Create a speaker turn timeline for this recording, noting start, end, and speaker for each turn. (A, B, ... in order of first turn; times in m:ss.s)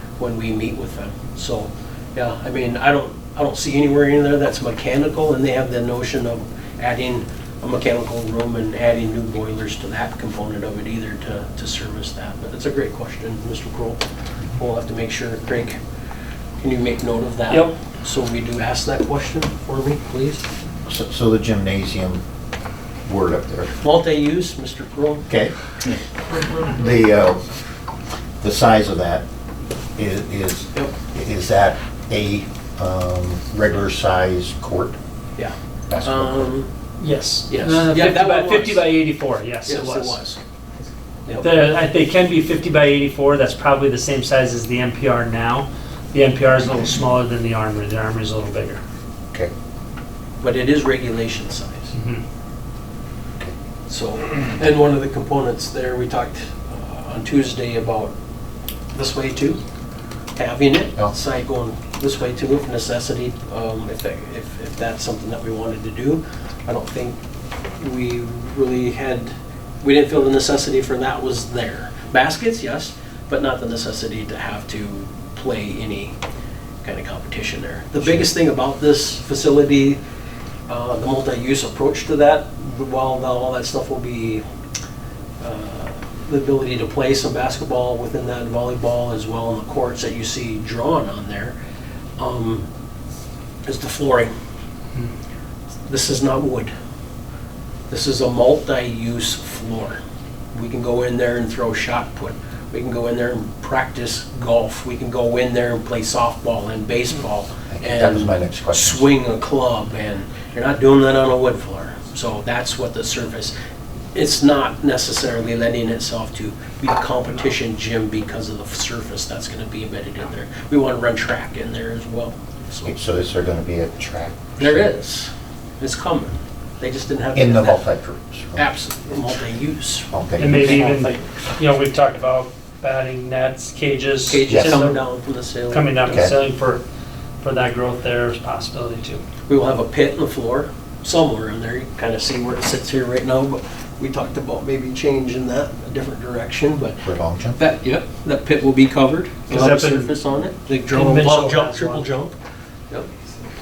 0:00.2-0:15.8 A
0:16.6-0:20.4 A
0:20.9-0:22.2 B
0:23.0-0:23.8 B
0:23.8-0:25.3 A
0:25.3-0:27.4 B
0:28.4-0:29.3 B
0:30.0-0:35.0 B
0:35.4-0:36.7 A
0:35.9-0:36.5 B
0:37.0-0:40.2 C
0:37.5-0:38.8 A
0:39.7-0:40.4 A
0:41.3-0:41.6 A
0:41.4-0:48.8 C
0:50.4-0:52.0 A
0:51.9-0:52.2 C
0:53.9-0:58.1 A
0:58.9-0:59.6 A
1:00.4-1:16.2 A
1:16.8-1:20.0 A
1:20.7-1:24.4 A
1:25.4-1:31.6 A
1:32.2-1:32.7 A
1:33.7-1:34.3 A
1:35.9-1:36.7 A
1:37.9-1:40.0 A
1:40.5-1:53.5 A
1:47.7-1:49.1 B
1:54.1-2:02.9 A
2:02.8-2:04.9 B
2:04.6-2:07.8 A
2:07.4-2:08.7 B
2:08.6-2:11.2 A
2:10.1-2:10.9 B
2:10.4-2:15.0 C
2:14.3-2:16.3 A
2:14.5-2:14.8 B
2:15.7-2:16.8 C
2:16.1-2:16.4 B
2:17.4-2:19.2 C
2:19.5-2:32.3 A
2:27.0-2:27.6 B
2:29.5-2:30.1 C
2:30.9-2:32.1 C